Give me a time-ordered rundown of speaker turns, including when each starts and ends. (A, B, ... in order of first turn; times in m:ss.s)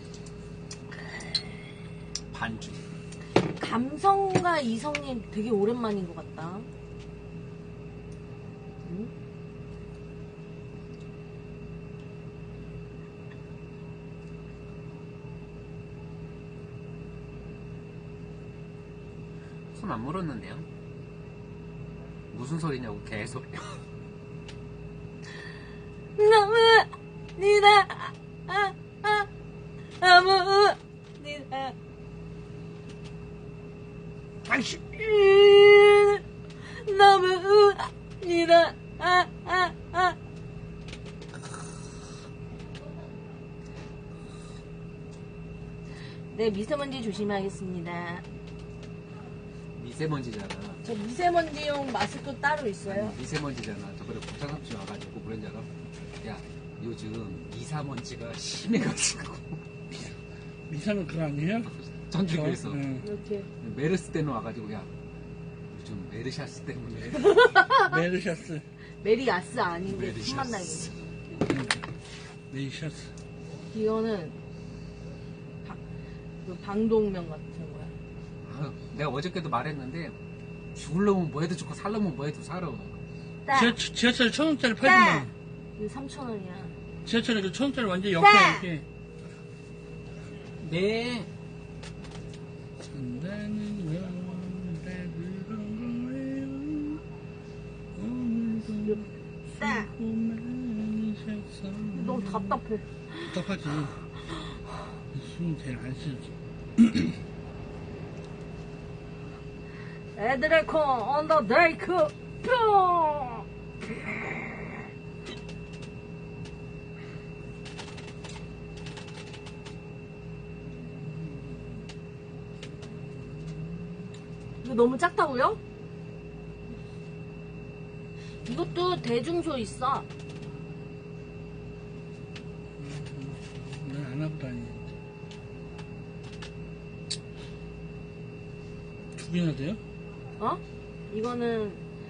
0:02.3-0:02.8 A
0:03.6-0:06.7 B
0:08.8-0:09.1 B
0:19.7-0:20.7 A
0:22.3-0:23.8 A
0:26.2-0:29.3 B
0:30.0-0:31.7 B
0:34.4-0:40.2 B
0:46.3-0:48.2 B
0:49.8-0:50.8 A
0:50.8-0:53.2 B
0:52.9-0:59.6 A
1:00.7-1:01.7 C
1:01.8-1:02.8 A
1:02.2-1:03.0 C
1:03.0-1:03.5 B
1:03.6-1:04.9 A
1:05.7-1:07.4 A
1:07.1-1:08.0 B
1:07.8-1:08.6 C
1:09.0-1:11.0 B
1:09.8-1:11.0 A
1:11.4-1:11.8 C
1:12.5-1:13.1 C
1:13.7-1:14.4 B
1:16.4-1:17.9 B
1:18.4-1:20.2 A
1:20.7-1:23.0 A
1:23.4-1:23.8 B
1:23.5-1:25.3 C
1:24.8-1:26.7 B
1:27.0-1:28.8 C
1:28.2-1:28.7 B
1:30.6-1:31.3 A
1:32.9-1:37.0 C
1:37.9-1:42.6 C
1:39.6-1:39.9 B
1:41.9-1:43.4 B
1:43.3-1:44.0 C
1:44.3-1:44.6 B
1:45.1-1:47.2 C
1:50.2-1:53.4 B
2:04.6-2:05.6 B
2:08.4-2:10.1 B
2:12.8-2:14.9 C
2:19.2-2:19.8 C
2:20.4-2:21.8 B